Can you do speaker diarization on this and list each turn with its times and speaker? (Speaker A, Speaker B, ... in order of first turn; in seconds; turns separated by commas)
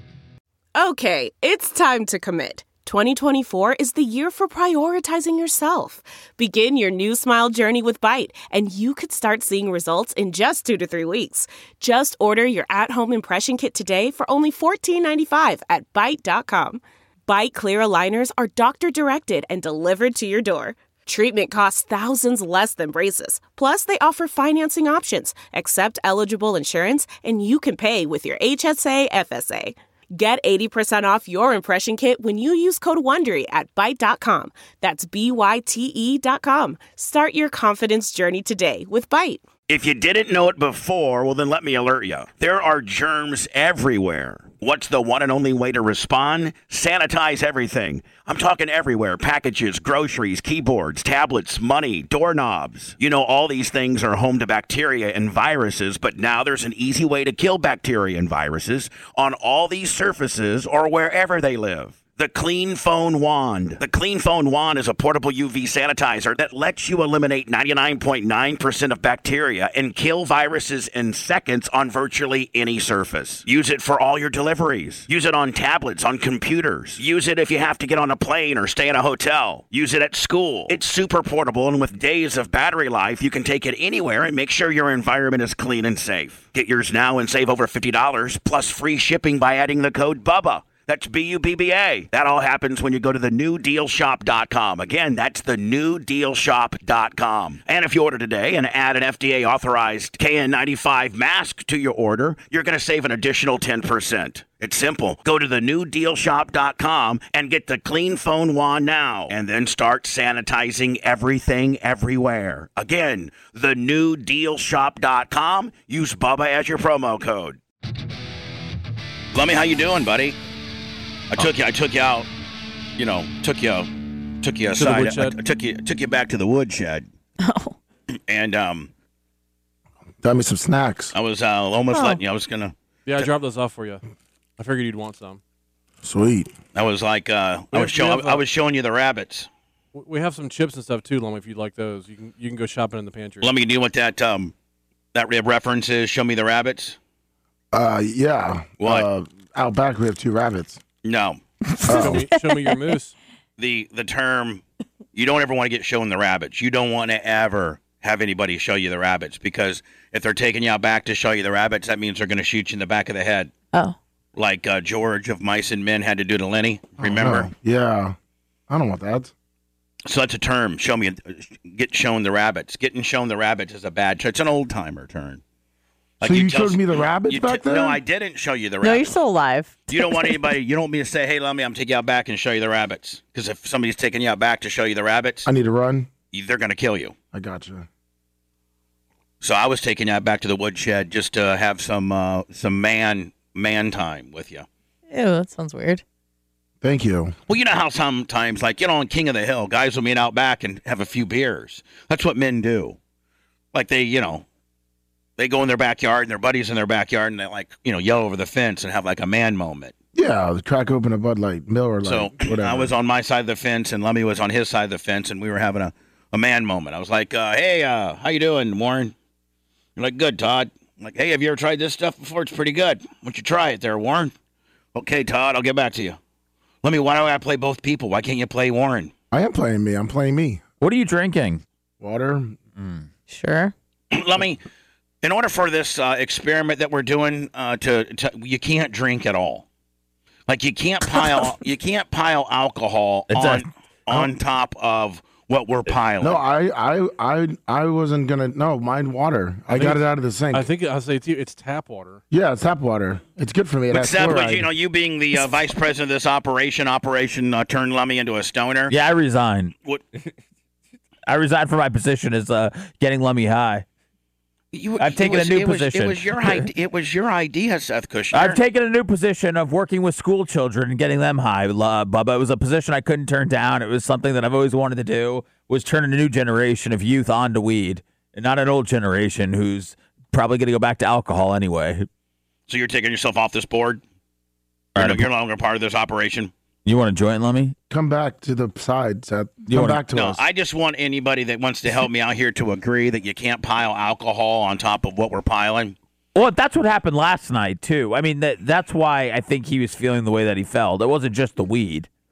Speaker A: 0.8-39.4, Speaker B: 39.7-117.6, Speaker B: 119.3-120.3, Speaker B: 121.3-122.3, Speaker B: 123.0-123.9, Speaker B: 124.4-127.0, Speaker C: 124.8-125.4, Speaker D: 127.4-127.8, Speaker B: 128.3-128.9, Speaker E: 130.2-131.1, Speaker B: 131.1-133.3, Speaker D: 131.9-132.2, Speaker C: 133.1-134.0, Speaker C: 134.6-135.4, Speaker E: 136.0-136.5, Speaker B: 136.7-139.5, Speaker C: 137.7-138.4, Speaker C: 139.9-143.5, Speaker B: 143.4-144.5, Speaker B: 145.1-147.0, Speaker E: 147.7-150.8, Speaker B: 148.8-149.1, Speaker B: 151.0-151.4, Speaker D: 151.7-152.8, Speaker E: 151.8-152.2, Speaker C: 151.9-153.1, Speaker B: 153.6-154.6, Speaker B: 155.1-163.5, Speaker B: 164.3-167.5, Speaker E: 167.0-168.2, Speaker E: 168.7-169.3, Speaker B: 170.1-175.4, Speaker B: 176.2-179.2, Speaker E: 176.2-178.0, Speaker D: 178.8-180.4, Speaker B: 179.9-185.5, Speaker E: 185.4-186.1, Speaker B: 186.3-187.1, Speaker E: 187.3-187.9, Speaker B: 189.4-194.7, Speaker D: 195.1-196.0, Speaker E: 196.8-197.3, Speaker B: 197.5-203.0, Speaker B: 203.7-204.4, Speaker B: 205.4-209.9, Speaker E: 210.1-212.9, Speaker B: 212.0-219.1, Speaker B: 219.9-224.3, Speaker B: 224.9-226.2, Speaker B: 226.8-229.1, Speaker E: 229.3-230.6, Speaker F: 230.8-231.6, Speaker E: 232.0-232.6, Speaker F: 232.8-233.1, Speaker D: 233.3-233.7, Speaker B: 234.1-234.6, Speaker B: 235.2-239.6, Speaker B: 240.5-246.4, Speaker F: 243.3-244.3, Speaker E: 246.2-250.7, Speaker C: 249.7-252.2, Speaker E: 252.3-254.7, Speaker B: 253.9-258.9, Speaker F: 258.9-259.7, Speaker F: 261.3-263.9, Speaker B: 264.7-268.6, Speaker F: 265.0-266.7, Speaker F: 268.3-282.1, Speaker B: 282.7-284.0, Speaker F: 284.9-285.3, Speaker B: 284.9-286.5, Speaker F: 286.9-287.8, Speaker E: 287.9-290.4, Speaker F: 289.7-290.0, Speaker B: 290.1-295.9, Speaker F: 296.3-302.1